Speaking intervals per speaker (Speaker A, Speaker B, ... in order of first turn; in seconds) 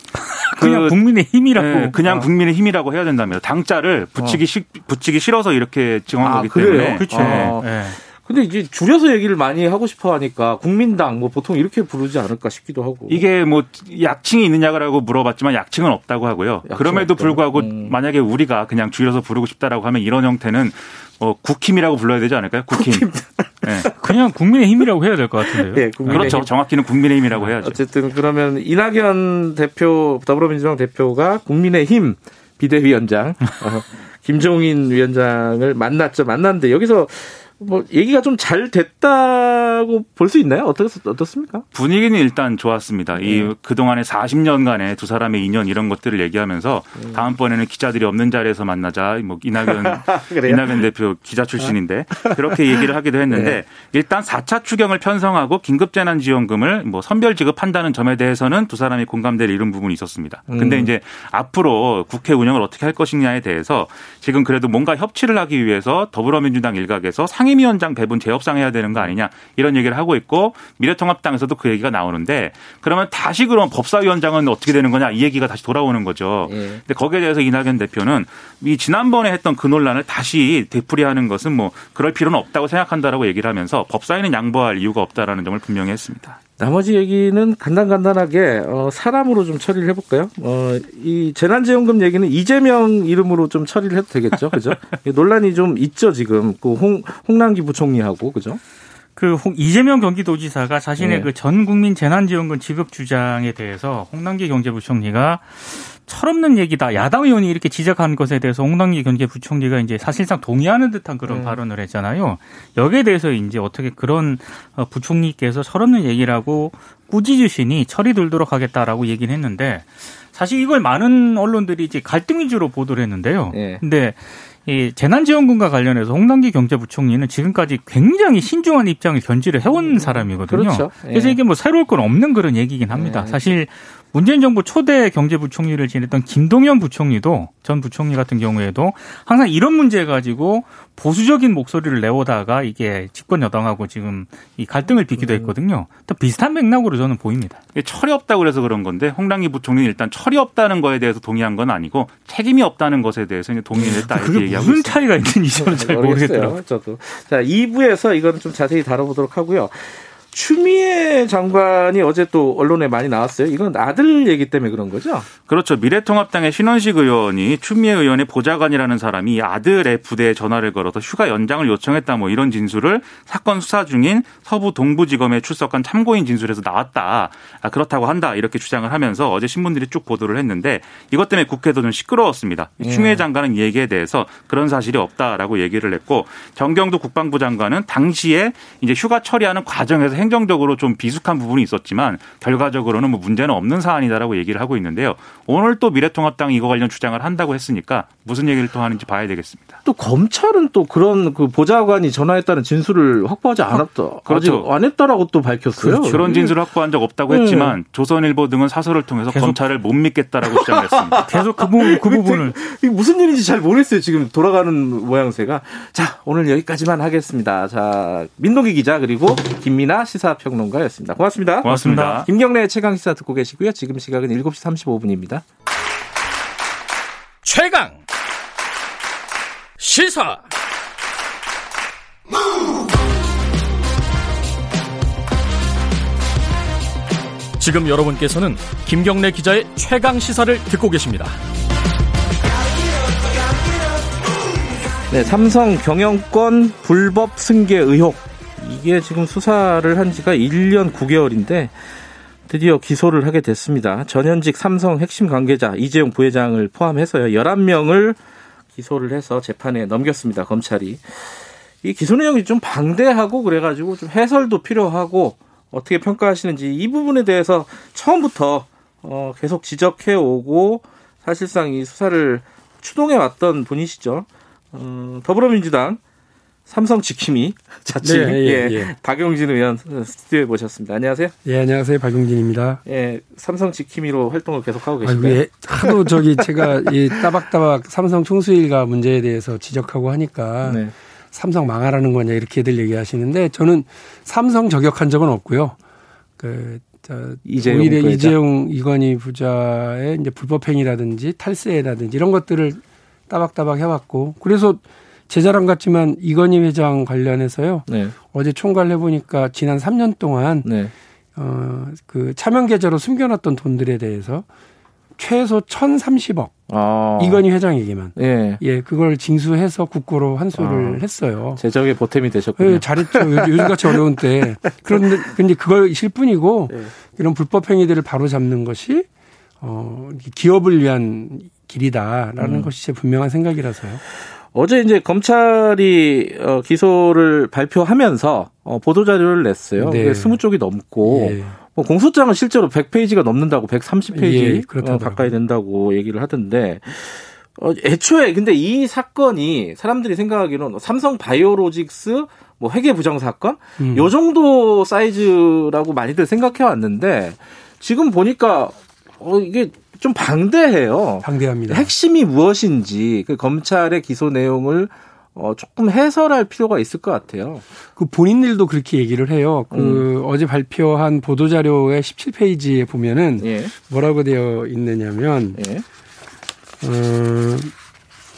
Speaker A: 0.3-2.2, 7.0-8.0, 23.9-26.5, 99.2-147.6, 153.8-156.6, 205.8-206.5, 209.3-209.6, 211.3-212.6, 221.8-222.1
Speaker B: 0.6-1.0, 1.6-7.6, 13.1-23.1, 23.6-23.9, 26.1-27.8, 41.7-86.4, 147.8-155.0, 165.5-199.8, 204.3-204.7, 206.1-211.2, 221.7-222.3
Speaker C: 6.2-13.2, 16.7-17.9, 22.7-24.1, 25.4-26.5, 27.6-41.6, 43.2-43.5, 47.0-47.3, 49.9-50.8, 53.3-53.6, 60.5-60.9, 76.5-76.8, 86.6-98.6, 101.0-101.3, 111.3-111.6, 123.5-123.8, 129.8-131.4, 132.9-133.4, 145.2-145.5, 153.8-154.0, 155.5-165.3, 182.8-183.2, 199.8-206.5, 207.3-207.8, 210.5-225.4, 245.1-251.9, 252.5-258.2, 258.7-276.0, 276.7-281.3, 282.9-287.3, 290.6-290.9, 297.4-298.4, 307.9-308.1, 310.6-310.9, 316.7-317.4, 318.2-318.6, 320.6-321.1, 321.6-324.1, 324.6-325.1, 332.4-332.7, 334.2-367.6, 369.7-370.1, 373.4-373.8, 375.6-375.9
Speaker D: 227.4-228.0, 229.8-230.5, 237.6-241.4
Speaker E: 278.0-278.9, 281.4-282.8, 285.0-295.8, 296.4-310.7, 311.4-314.5, 315.2-316.6, 317.2-321.6, 322.6-329.1, 329.6-334.0, 339.8-340.4, 341.0-341.6, 344.1-345.3, 353.8-354.1, 361.2-361.9, 368.0-375.6, 376.8-377.7